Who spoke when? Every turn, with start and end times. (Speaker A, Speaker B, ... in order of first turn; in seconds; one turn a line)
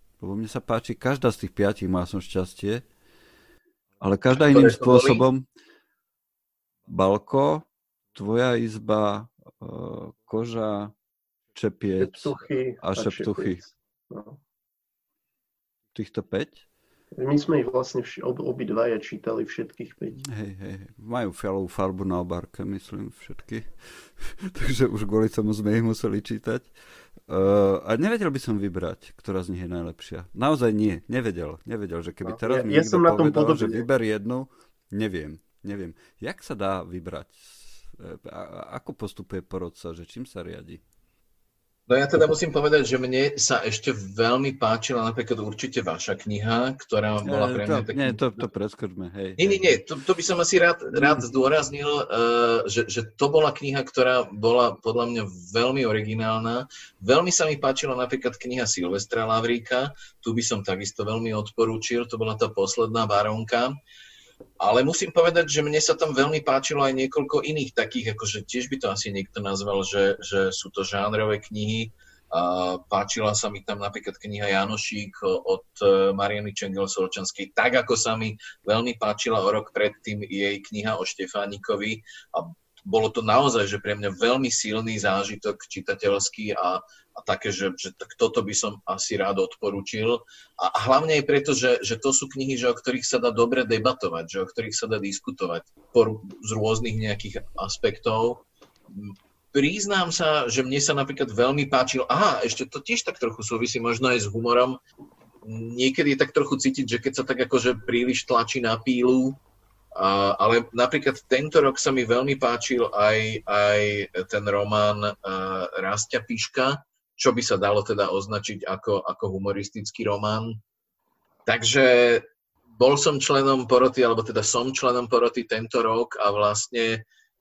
Speaker A: 0.2-2.8
Speaker A: 4.0-5.5
Speaker B: 4.4-5.3
Speaker A: 6.9-10.9
Speaker A: 11.6-13.6
Speaker C: 12.0-14.4
Speaker A: 15.9-16.6
Speaker C: 17.2-20.2
Speaker A: 20.2-26.7
Speaker A: 27.3-40.8
Speaker C: 32.2-33.9
Speaker B: 41.9-48.5
Speaker A: 47.2-49.8
Speaker B: 49.4-63.8
Speaker B: 64.6-104.8
Speaker B: 105.4-109.4
Speaker B: 110.0-120.6
Speaker B: 121.5-127.0